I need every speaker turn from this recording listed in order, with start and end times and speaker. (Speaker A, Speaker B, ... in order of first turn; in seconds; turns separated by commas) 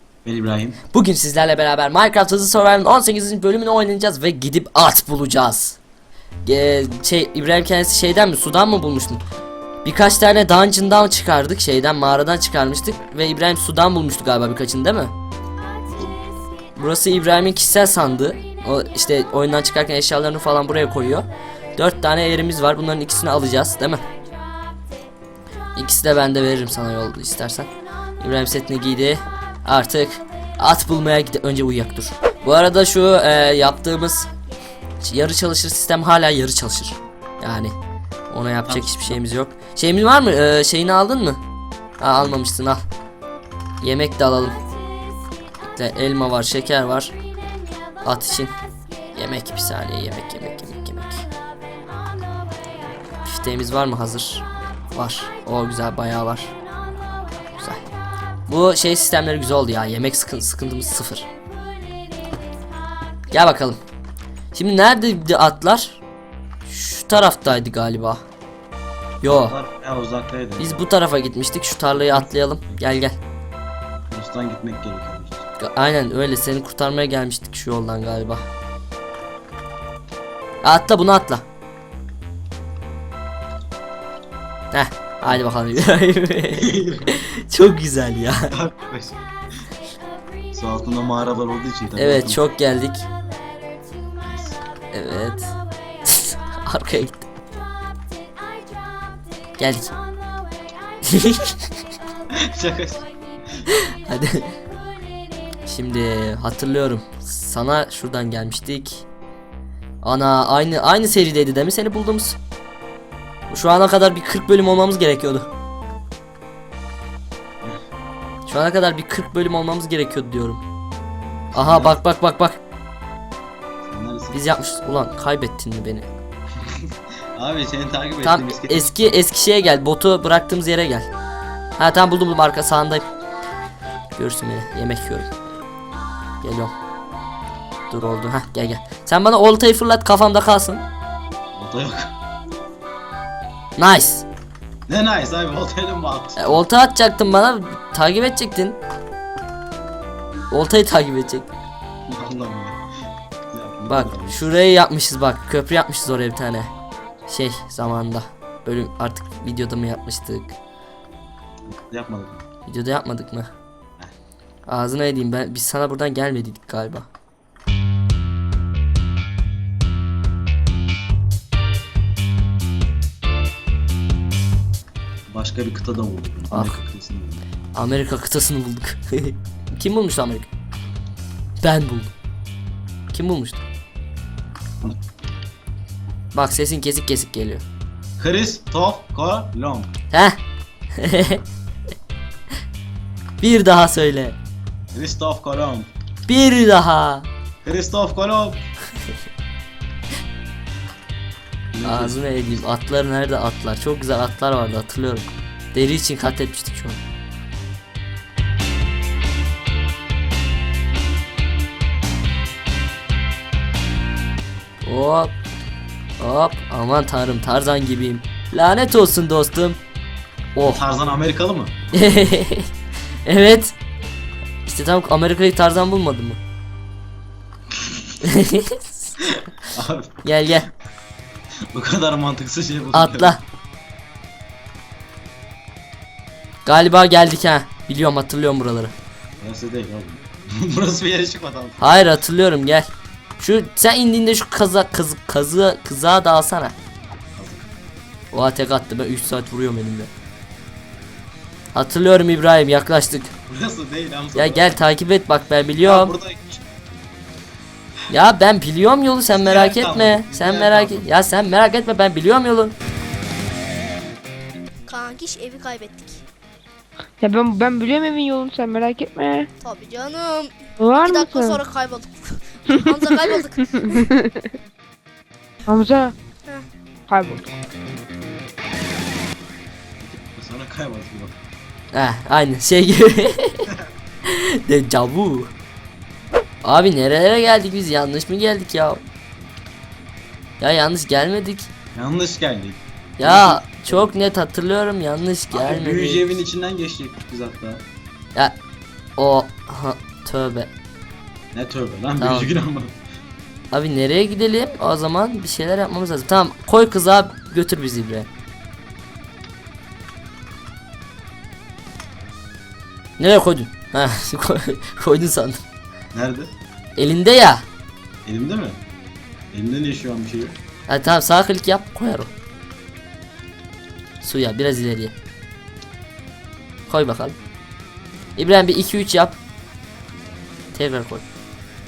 Speaker A: 0.2-0.8, Speaker B: 0.9-5.8, Speaker B: 6.4-9.2, Speaker B: 9.8-15.1, Speaker B: 16.8-24.0, Speaker B: 25.8-34.3, Speaker B: 35.0-37.7, Speaker B: 38.3-41.4, Speaker A: 38.6-39.2, Speaker B: 42.0-42.8, Speaker B: 43.8-44.5, Speaker B: 45.6-47.1, Speaker B: 48.0-48.5, Speaker B: 49.1-51.2, Speaker B: 53.2-56.5, Speaker B: 57.6-57.8, Speaker B: 58.5-61.3, Speaker B: 63.3-63.8, Speaker B: 64.5-66.0, Speaker B: 66.7-68.2, Speaker B: 69.2-69.5, Speaker A: 69.2-70.8, Speaker B: 70.6-73.2, Speaker A: 72.1-72.8, Speaker A: 74.1-75.5, Speaker B: 75.6-78.5, Speaker B: 80.6-81.4, Speaker B: 84.7-88.5, Speaker A: 85.2-85.9, Speaker A: 86.5-87.1, Speaker A: 88.5-89.2, Speaker A: 90.5-92.4, Speaker B: 92.0-93.0, Speaker A: 94.2-94.6, Speaker B: 94.9-95.5, Speaker B: 96.0-97.3, Speaker B: 99.6-99.9, Speaker B: 101.0-101.6, Speaker A: 102.3-103.1, Speaker B: 103.7-104.5, Speaker B: 105.7-109.0, Speaker B: 110.0-112.4, Speaker B: 113.5-115.5, Speaker B: 118.5-120.6, Speaker A: 121.5-122.0, Speaker B: 121.5-122.6, Speaker A: 123.8-124.4, Speaker B: 124.3-126.1, Speaker A: 126.6-129.0, Speaker B: 128.2-131.1, Speaker B: 131.8-133.1, Speaker B: 134.2-135.3, Speaker B: 136.4-136.7, Speaker B: 137.9-140.8, Speaker A: 141.5-142.1, Speaker B: 143.8-144.2, Speaker A: 144.9-146.6, Speaker B: 146.4-148.8, Speaker B: 150.5-151.5, Speaker A: 152.1-152.8, Speaker A: 153.5-154.6, Speaker B: 153.9-156.7, Speaker B: 157.3-160.5, Speaker A: 161.7-162.4, Speaker B: 162.7-163.5, Speaker B: 164.7-167.1, Speaker A: 175.3-177.4, Speaker B: 176.5-176.8, Speaker B: 177.7-180.5, Speaker B: 181.6-182.1, Speaker B: 183.1-183.6, Speaker B: 186.3-187.6, Speaker A: 188.2-189.9, Speaker B: 190.1-190.4, Speaker B: 191.0-191.4, Speaker B: 193.4-194.4, Speaker A: 194.9-195.9, Speaker B: 196.3-197.3, Speaker A: 197.6-198.6, Speaker A: 201.7-202.7, Speaker B: 201.8-207.0, Speaker B: 214.8-215.3, Speaker B: 216.2-219.8, Speaker B: 220.6-220.8, Speaker A: 220.6-222.2, Speaker B: 221.9-222.7, Speaker B: 223.2-223.7, Speaker B: 224.7-226.4, Speaker A: 227.7-228.1, Speaker B: 228.2-229.2, Speaker A: 229.2-230.2, Speaker B: 230.2-230.7, Speaker A: 231.7-233.4, Speaker B: 232.9-233.4, Speaker B: 236.7-238.9, Speaker A: 239.4-242.0, Speaker B: 241.8-242.9, Speaker B: 243.4-246.7, Speaker A: 247.3-247.7, Speaker B: 248.3-250.1, Speaker B: 251.7-253.3, Speaker A: 253.5-254.8, Speaker B: 254.3-256.1, Speaker A: 255.8-256.6, Speaker B: 258.1-262.7, Speaker A: 259.3-261.1, Speaker C: 264.9-266.2, Speaker D: 267.2-269.5, Speaker C: 269.6-274.1, Speaker D: 270.8-271.6, Speaker D: 272.9-274.3, Speaker D: 275.7-276.1, Speaker D: 277.1-277.6, Speaker A: 280.0-281.4, Speaker B: 281.9-283.7, Speaker B: 284.2-285.5, Speaker B: 286.6-289.0, Speaker B: 290.6-291.7, Speaker A: 291.9-294.1, Speaker B: 293.2-296.2, Speaker A: 295.5-297.8, Speaker B: 299.2-300.7, Speaker A: 301.5-302.9, Speaker B: 302.2-302.5, Speaker B: 303.7-308.3, Speaker B: 313.2-315.6, Speaker A: 316.1-316.5, Speaker B: 317.0-317.6, Speaker A: 318.2-318.8, Speaker A: 319.5-320.6, Speaker B: 320.9-322.3, Speaker B: 324.2-325.1, Speaker B: 326.9-327.3, Speaker B: 328.4-329.4, Speaker B: 330.7-331.2